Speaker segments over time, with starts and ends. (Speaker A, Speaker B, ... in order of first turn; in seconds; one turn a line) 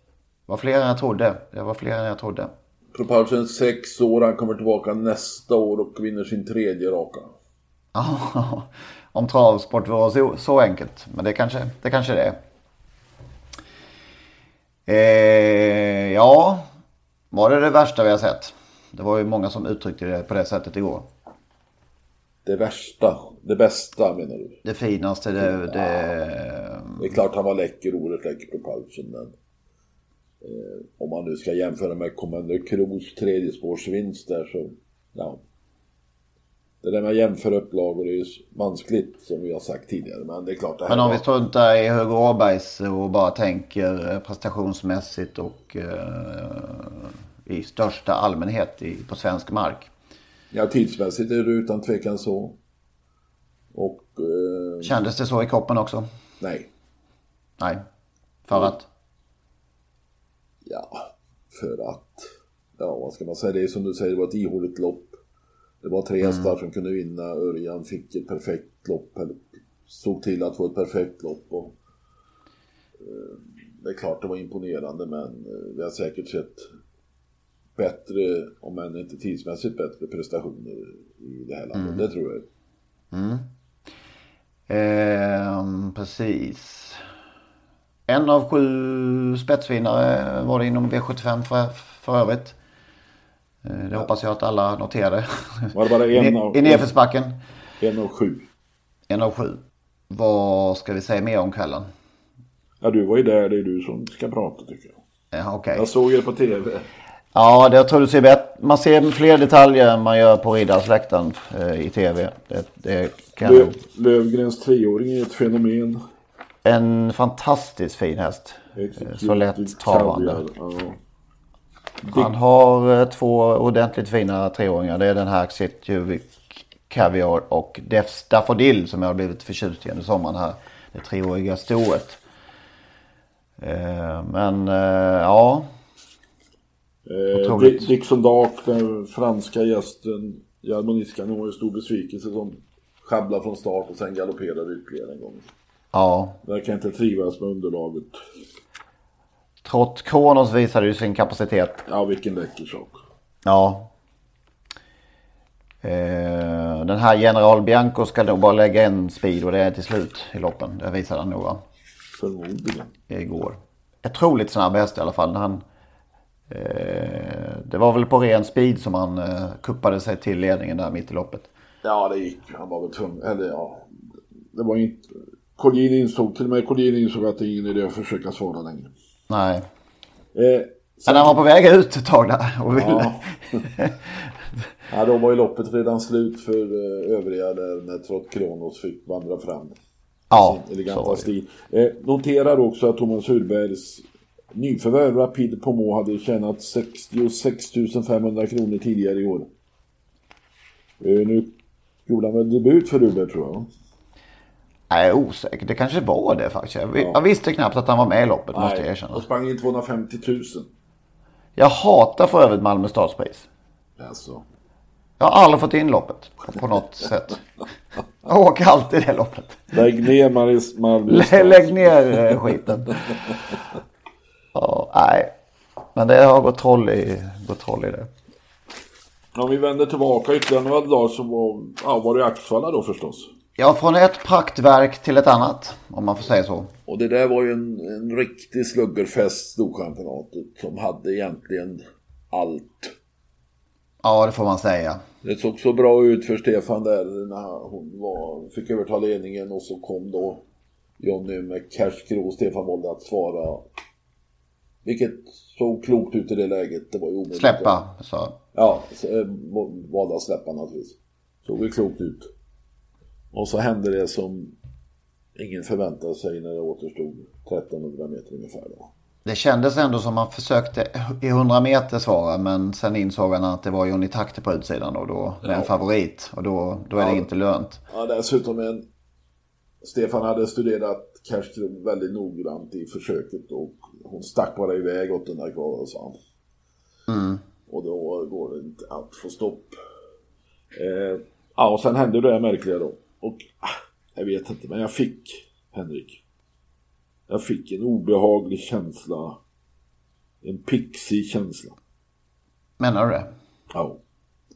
Speaker A: 0.5-2.5
Speaker B: 2.9-7.3
Speaker A: 7.9-12.4
Speaker A: 14.9-16.7
Speaker A: 17.3-21.1
Speaker B: 22.4-24.6
Speaker A: 24.6-27.0
Speaker B: 25.4-26.1
Speaker B: 27.0-29.3
Speaker B: 30.4-35.4
Speaker B: 36.8-41.2
Speaker A: 40.9-49.9
Speaker B: 50.5-52.6
Speaker B: 53.7-54.9
Speaker A: 54.8-56.1
Speaker B: 56.4-56.7
Speaker A: 58.5-58.9
Speaker B: 60.6-65.2
Speaker B: 65.8-71.8
Speaker A: 66.2-66.5
Speaker B: 73.0-76.7
Speaker B: 77.8-82.5
Speaker A: 81.7-82.0
Speaker A: 83.1-83.5
Speaker A: 84.7-87.0
Speaker A: 88.1-92.6
Speaker A: 93.6-97.4
Speaker B: 95.7-96.9
Speaker B: 97.8-98.5
Speaker A: 99.1-99.6
Speaker A: 100.1-101.9
Speaker B: 102.8-105.0
Speaker A: 105.3-105.9
Speaker B: 105.7-106.9
Speaker A: 107.3-113.8
Speaker B: 113.4-116.0
Speaker A: 116.6-120.4
Speaker B: 118.8-121.0
Speaker B: 122.0-122.3
Speaker A: 122.1-132.2
Speaker A: 133.6-135.7
Speaker B: 137.1-145.5
Speaker A: 137.3-137.9
Speaker A: 145.9-146.4
Speaker B: 146.4-148.2
Speaker A: 149.6-151.8
Speaker B: 151.8-153.0
Speaker A: 153.4-153.9
Speaker A: 155.8-161.6
Speaker B: 162.1-162.9
Speaker A: 163.1-165.6
Speaker A: 166.5-171.5
Speaker B: 171.8-173.9
Speaker B: 174.5-178.9
Speaker A: 179.3-179.6
Speaker B: 180.3-181.4
Speaker A: 181.1-183.2
Speaker B: 182.7-183.7
Speaker B: 184.9-189.8
Speaker A: 190.3-191.3
Speaker B: 190.3-199.5
Speaker B: 201.0-201.5
Speaker B: 202.1-203.7
Speaker A: 204.9-209.2
Speaker B: 208.5-210.7
Speaker A: 211.6-213.5
Speaker B: 214.0-214.4
Speaker A: 215.2-217.4
Speaker A: 218.2-219.7
Speaker B: 219.7-222.6
Speaker A: 221.1-223.1
Speaker A: 224.5-225.3
Speaker A: 225.9-228.1
Speaker B: 229.3-233.3
Speaker A: 233.6-236.7
Speaker B: 236.9-242.9
Speaker A: 244.0-245.0
Speaker B: 245.2-250.4
Speaker B: 251.0-253.7
Speaker B: 254.8-257.7
Speaker A: 257.3-258.4
Speaker B: 258.5-262.3
Speaker B: 263.3-264.6
Speaker B: 265.4-268.9
Speaker A: 269.2-277.8
Speaker B: 275.4-275.7
Speaker B: 276.9-277.3
Speaker B: 277.9-278.9
Speaker B: 279.8-286.2
Speaker A: 287.1-287.4
Speaker B: 287.7-289.8
Speaker B: 290.7-296.2
Speaker B: 297.3-299.4
Speaker B: 300.4-301.8
Speaker A: 302.8-303.3
Speaker B: 303.7-304.0